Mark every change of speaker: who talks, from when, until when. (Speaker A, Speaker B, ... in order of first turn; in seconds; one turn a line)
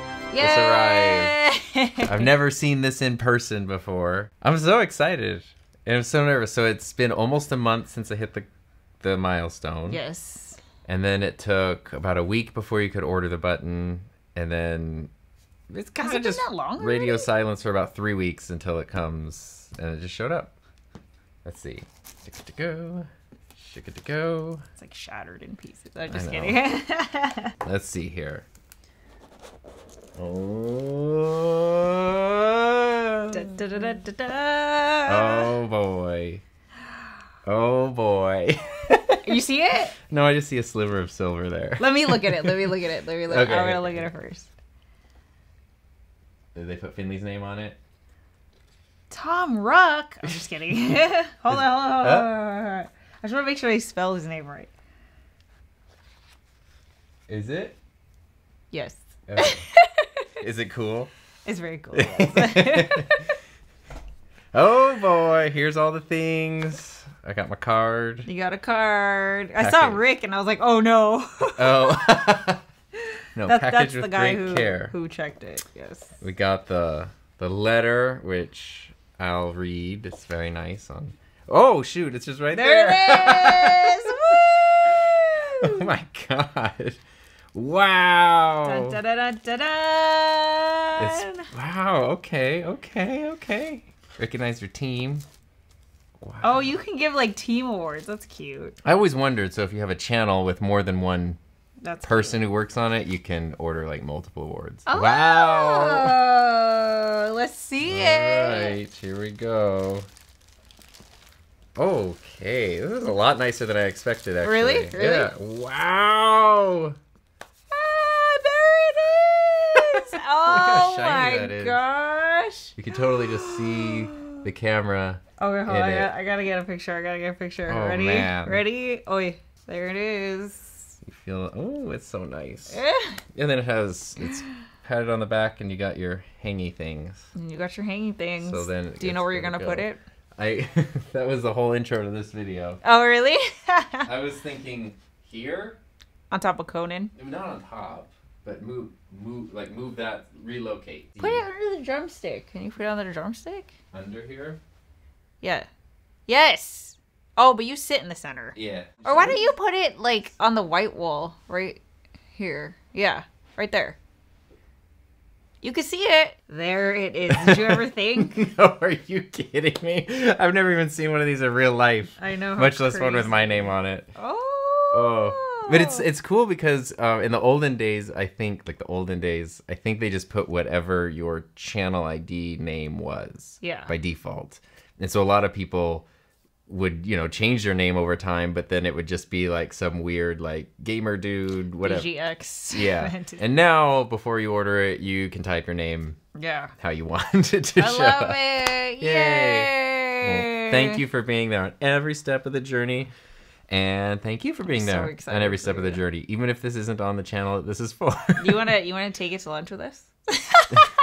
Speaker A: 0.3-2.3
Speaker B: 0.4-1.4
Speaker B: 2.0-8.5
Speaker B: 9.0-10.0
Speaker A: 9.9-10.6
Speaker B: 10.9-15.1
Speaker B: 15.7-20.5
Speaker A: 16.0-17.3
Speaker B: 21.4-24.6
Speaker A: 24.8-27.5
Speaker B: 26.1-26.6
Speaker B: 27.6-28.4
Speaker B: 30.2-33.5
Speaker A: 33.3-35.5
Speaker B: 35.1-36.4
Speaker B: 37.5-39.4
Speaker A: 39.2-40.0
Speaker B: 40.1-42.8
Speaker A: 41.8-44.5
Speaker B: 43.3-44.1
Speaker B: 46.5-47.8
Speaker A: 49.1-54.7
Speaker B: 51.5-52.3
Speaker B: 57.3-57.8
Speaker A: 58.7-60.1
Speaker B: 59.3-59.6
Speaker B: 60.4-61.1
Speaker A: 61.5-63.2
Speaker B: 62.0-63.1
Speaker B: 64.5-68.3
Speaker A: 68.2-72.3
Speaker B: 69.6-70.0
Speaker B: 71.6-72.6
Speaker B: 73.4-74.9
Speaker A: 73.4-76.2
Speaker B: 76.2-84.4
Speaker A: 82.5-85.9
Speaker B: 85.6-87.0
Speaker B: 87.5-89.0
Speaker A: 88.6-91.5
Speaker B: 91.0-95.2
Speaker B: 96.2-96.7
Speaker A: 96.4-98.8
Speaker B: 98.8-101.4
Speaker A: 101.8-102.4
Speaker B: 102.0-106.2
Speaker A: 104.9-108.8
Speaker B: 107.8-110.1
Speaker B: 111.8-117.0
Speaker A: 114.4-115.3
Speaker A: 117.7-124.3
Speaker B: 120.5-121.8
Speaker B: 122.8-126.1
Speaker A: 125.4-130.9
Speaker B: 127.7-128.6
Speaker B: 131.1-132.8
Speaker A: 132.7-133.2
Speaker B: 133.3-137.3
Speaker A: 137.3-140.0
Speaker B: 138.4-142.8
Speaker A: 142.8-144.1
Speaker B: 144.1-145.8
Speaker A: 146.3-147.1
Speaker B: 147.2-151.4
Speaker A: 151.2-153.7
Speaker B: 153.9-154.6
Speaker A: 155.4-155.7
Speaker A: 156.3-161.8
Speaker B: 158.6-159.5
Speaker A: 162.3-164.0
Speaker A: 165.6-168.5
Speaker B: 167.3-174.1
Speaker A: 172.2-176.1
Speaker B: 174.9-186.1
Speaker A: 183.6-183.9
Speaker B: 186.7-192.1
Speaker A: 191.8-193.4
Speaker B: 192.7-196.2
Speaker A: 196.4-196.7
Speaker B: 196.8-198.4
Speaker A: 197.8-201.0
Speaker B: 199.0-203.1
Speaker B: 203.7-208.7
Speaker A: 204.7-206.0
Speaker A: 208.4-210.9